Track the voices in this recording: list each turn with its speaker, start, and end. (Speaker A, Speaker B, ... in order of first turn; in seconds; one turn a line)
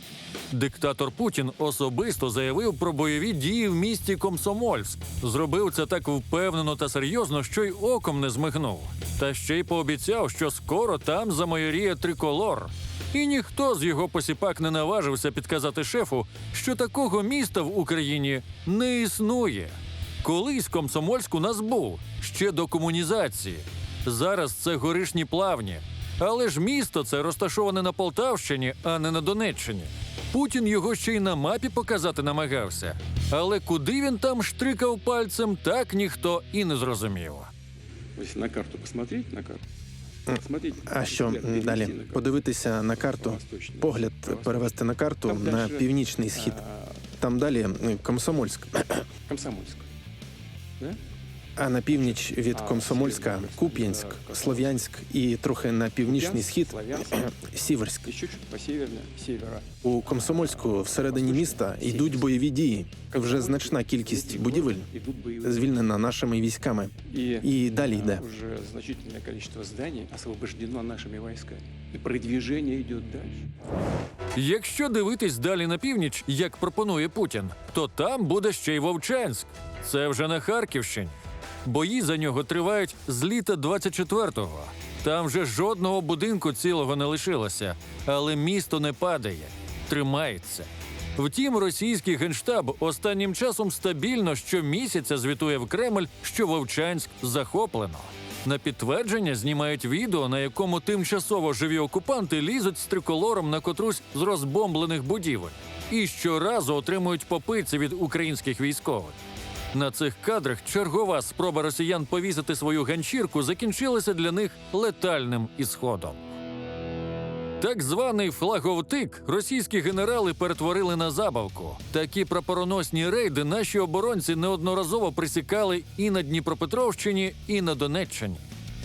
Speaker A: 0.5-37.5
Speaker B: 38.2-39.6
Speaker B: 40.3-42.4
Speaker C: 40.9-46.6
Speaker B: 43.0-44.7
Speaker B: 45.2-47.0
Speaker C: 47.2-49.0
Speaker B: 49.2-49.9
Speaker C: 51.6-58.1
Speaker B: 52.5-54.8
Speaker B: 56.1-57.3
Speaker B: 58.0-62.3
Speaker C: 59.8-64.9
Speaker B: 63.1-65.8
Speaker C: 65.4-68.2
Speaker B: 67.1-73.5
Speaker A: 74.3-109.2
Speaker A: 109.7-116.2
Speaker A: 117.6-128.4